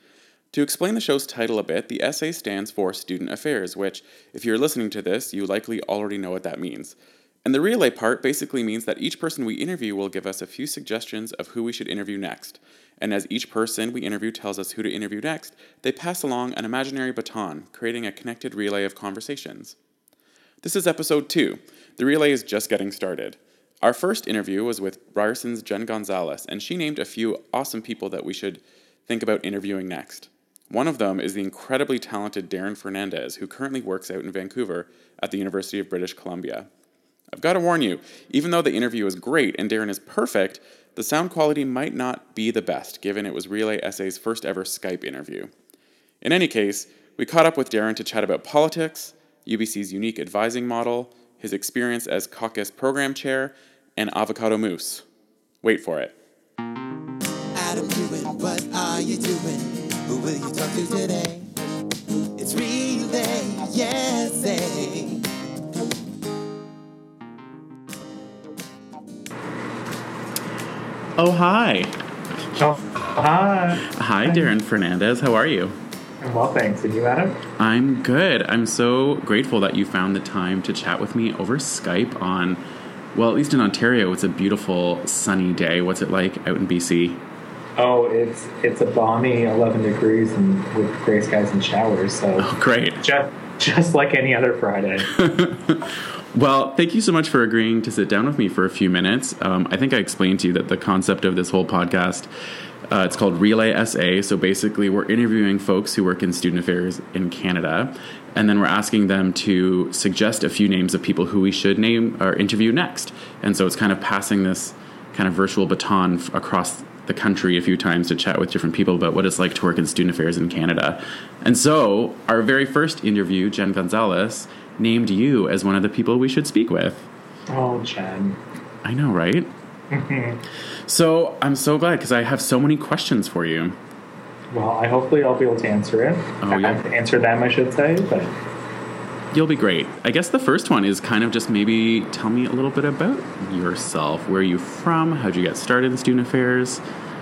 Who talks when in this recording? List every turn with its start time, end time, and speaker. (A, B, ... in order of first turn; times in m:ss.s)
0:00.5-0:19.8 A
0:20.6-0:36.7 A
0:37.3-0:45.5 A
0:46.2-0:55.0 A
0:55.6-0:56.1 A
0:57.5-1:01.5 B
1:02.4-1:05.3 B
1:11.2-1:11.9 A
1:12.6-1:14.5 C
1:13.8-1:15.8 A
1:16.2-1:17.4 C
1:17.6-1:22.6 A
1:23.1-1:27.2 A
1:27.8-1:35.1 C
1:32.4-1:33.0 A
1:35.1-1:42.3 A
1:42.9-2:07.1 A
2:07.5-2:08.4 C
2:08.8-2:09.5 A
2:09.9-2:10.4 C
2:10.9-2:13.8 A
2:14.5-2:18.3 C
2:16.4-2:16.8 A
2:19.3-2:26.8 A